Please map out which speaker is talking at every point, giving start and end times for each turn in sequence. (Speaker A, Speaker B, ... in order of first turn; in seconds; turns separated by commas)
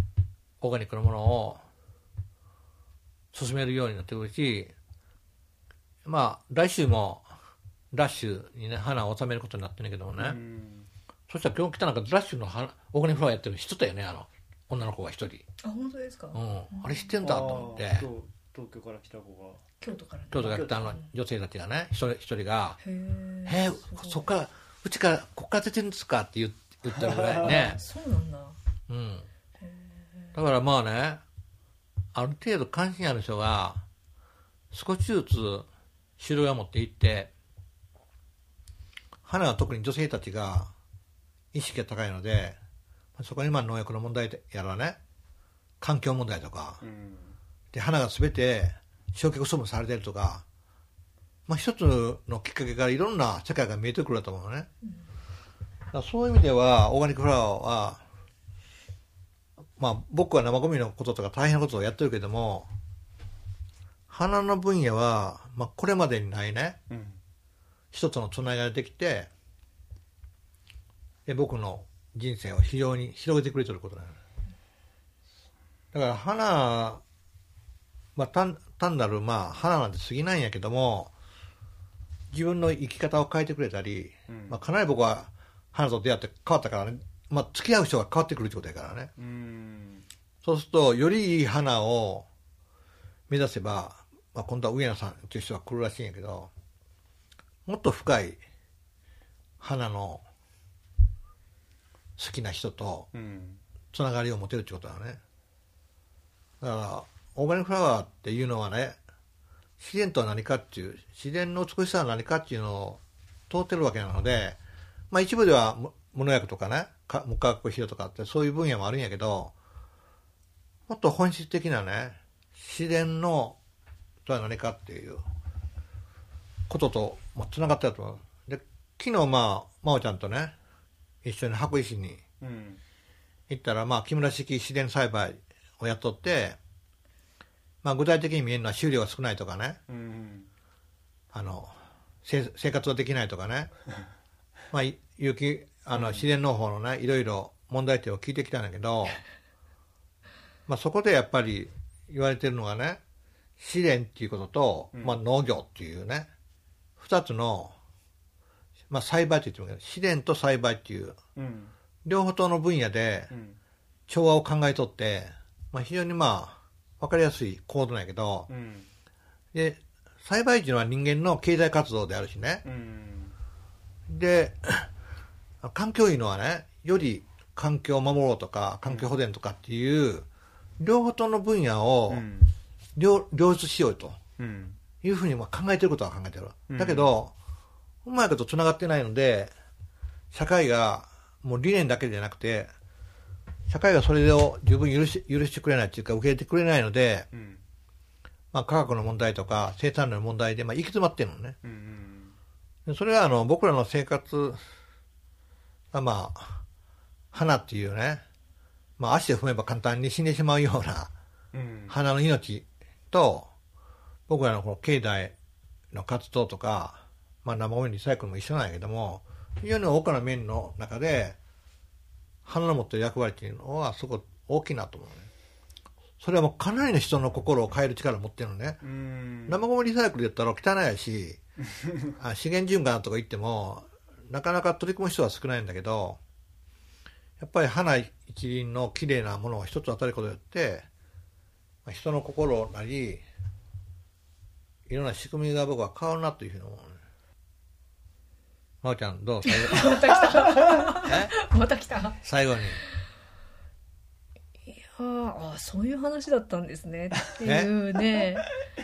Speaker A: 0.6-1.6, Speaker A: 3.3-4.7, Speaker A: 6.0-7.3, Speaker A: 7.9-10.4, Speaker B: 10.2-10.9, Speaker A: 11.3-15.4, Speaker C: 15.6-17.8, Speaker A: 16.3-18.1, Speaker B: 17.2-19.6, Speaker C: 19.8-21.1, Speaker A: 20.3-22.8, Speaker B: 20.4-20.9, Speaker C: 22.8-24.3, Speaker A: 23.4-27.8, Speaker B: 27.0-27.6, Speaker C: 27.4-28.6, Speaker A: 28.9-29.3, Speaker C: 29.6-30.3, Speaker A: 30.3-31.2, Speaker A: 32.1-33.8, Speaker A: 34.7-35.7, Speaker A: 36.2-37.3, Speaker A: 39.2-40.7, Speaker A: 41.5-42.6, Speaker A: 43.2-45.0, Speaker A: 45.8-46.8, Speaker B: 46.8-47.3, Speaker A: 47.7-50.4, Speaker A: 51.5-54.7, Speaker A: 55.9-58.0, Speaker A: 59.8-62.7, Speaker A: 64.1-66.8, Speaker B: 66.9-67.2, Speaker A: 67.9-69.3, Speaker A: 71.3-74.2, Speaker A: 75.9-77.0, Speaker A: 78.2-81.1, Speaker A: 82.3-89.1, Speaker B: 84.3-84.6, Speaker B: 89.2-90.0, Speaker A: 90.4-92.3, Speaker A: 93.3-96.5, Speaker A: 97.7-98.4, Speaker A: 99.6-100.2, Speaker A: 102.2-103.1, Speaker B: 103.1-103.6, Speaker A: 103.9-105.2, Speaker A: 106.6-109.0, Speaker A: 109.8-114.6, Speaker A: 115.1-119.5, Speaker A: 120.9-123.6, Speaker A: 124.2-125.2, Speaker A: 126.7-130.5, Speaker A: 131.2-132.2, Speaker B: 132.4-132.8, Speaker A: 133.5-136.6, Speaker A: 137.8-139.8, Speaker B: 139.9-140.5, Speaker A: 141.3-143.7, Speaker A: 144.7-149.2, Speaker B: 145.9-146.3, Speaker A: 150.7-153.0, Speaker A: 153.6-156.3, Speaker A: 157.0-157.7, Speaker A: 158.9-161.2, Speaker B: 161.3-161.7, Speaker A: 162.0-163.3, Speaker B: 163.3-163.6, Speaker A: 164.1-168.5, Speaker B: 168.5-168.9, Speaker A: 169.5-172.6, Speaker B: 172.6-173.3, Speaker A: 174.1-174.9, Speaker A: 175.6-180.3, Speaker B: 178.8-179.1, Speaker A: 180.8-182.2, Speaker B: 182.1-182.5, Speaker A: 182.9-184.2, Speaker B: 184.4-184.8, Speaker A: 185.0-187.3, Speaker B: 186.7-187.1, Speaker A: 188.0-189.5, Speaker A: 190.3-192.7, Speaker A: 193.7-197.3, Speaker B: 197.3-197.6, Speaker A: 198.5-201.6, Speaker B: 201.6-202.3, Speaker A: 202.8-204.6, Speaker A: 205.9-206.6, Speaker A: 207.3-208.2, Speaker A: 209.0-211.1, Speaker B: 211.5-211.9, Speaker A: 211.9-213.5, Speaker A: 214.3-215.3, Speaker A: 215.9-221.4, Speaker A: 222.4-225.3, Speaker A: 226.2-228.8, Speaker B: 228.8-229.6, Speaker A: 229.5-231.4, Speaker B: 231.8-232.1, Speaker A: 232.2-236.2, Speaker A: 237.4-240.9, Speaker A: 241.8-243.2, Speaker A: 244.9-247.0, Speaker A: 248.8-250.0, Speaker C: 249.4-252.2, Speaker A: 251.1-251.3, Speaker A: 252.2-252.8, Speaker C: 254.7-258.5, Speaker A: 257.4-257.7